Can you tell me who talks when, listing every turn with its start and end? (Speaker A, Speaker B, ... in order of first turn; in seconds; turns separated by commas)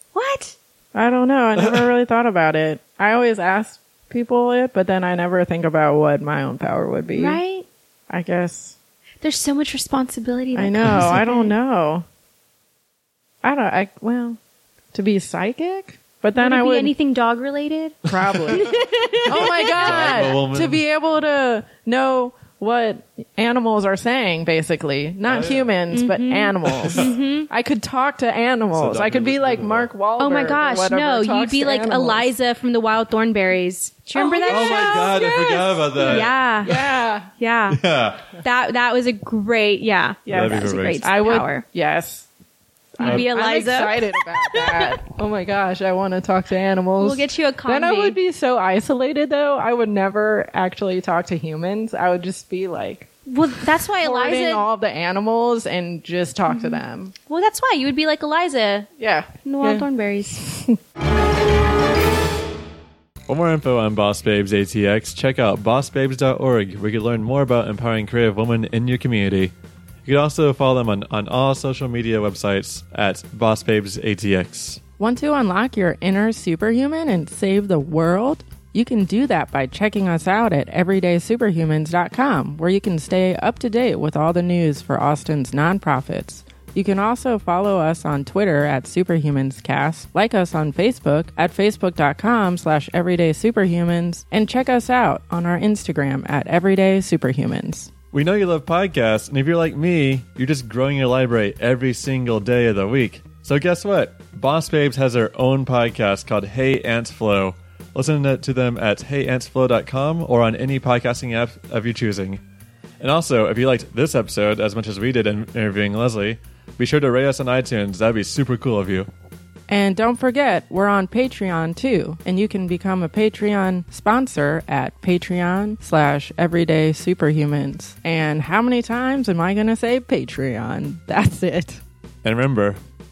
Speaker A: 0.1-0.6, Speaker B: 0.9-7.4, Speaker C: 1.6-1.9, Speaker A: 7.2-7.7, Speaker B: 8.1-8.8, Speaker A: 9.2-11.5, Speaker B: 10.6-12.1, Speaker C: 10.8-11.2, Speaker B: 13.4-14.4, Speaker B: 14.9-16.9, Speaker A: 16.4-20.3, Speaker B: 18.1-18.7, Speaker C: 18.1-18.7, Speaker B: 19.3-32.3, Speaker C: 19.4-20.8, Speaker C: 25.2-25.7, Speaker A: 25.9-27.5, Speaker C: 26.7-27.1, Speaker C: 28.7-29.9, Speaker A: 30.2-36.8, Speaker B: 34.1-35.1, Speaker C: 34.5-36.3, Speaker B: 36.0-37.3, Speaker A: 37.3-37.8, Speaker C: 37.7-38.3, Speaker A: 38.4-41.6, Speaker B: 40.3-42.3, Speaker C: 40.3-41.1, Speaker B: 43.0-53.1, Speaker A: 43.0-45.0, Speaker A: 47.0-48.2, Speaker A: 53.3-54.6, Speaker B: 54.0-57.1, Speaker A: 56.5-58.9, Speaker B: 59.0-60.8, Speaker A: 59.4-60.4, Speaker C: 63.3-69.5, Speaker C: 70.1-74.8, Speaker B: 75.0-97.9, Speaker C: 98.1-112.4, Speaker C: 113.0-119.1, Speaker B: 119.7-131.8, Speaker C: 132.2-132.8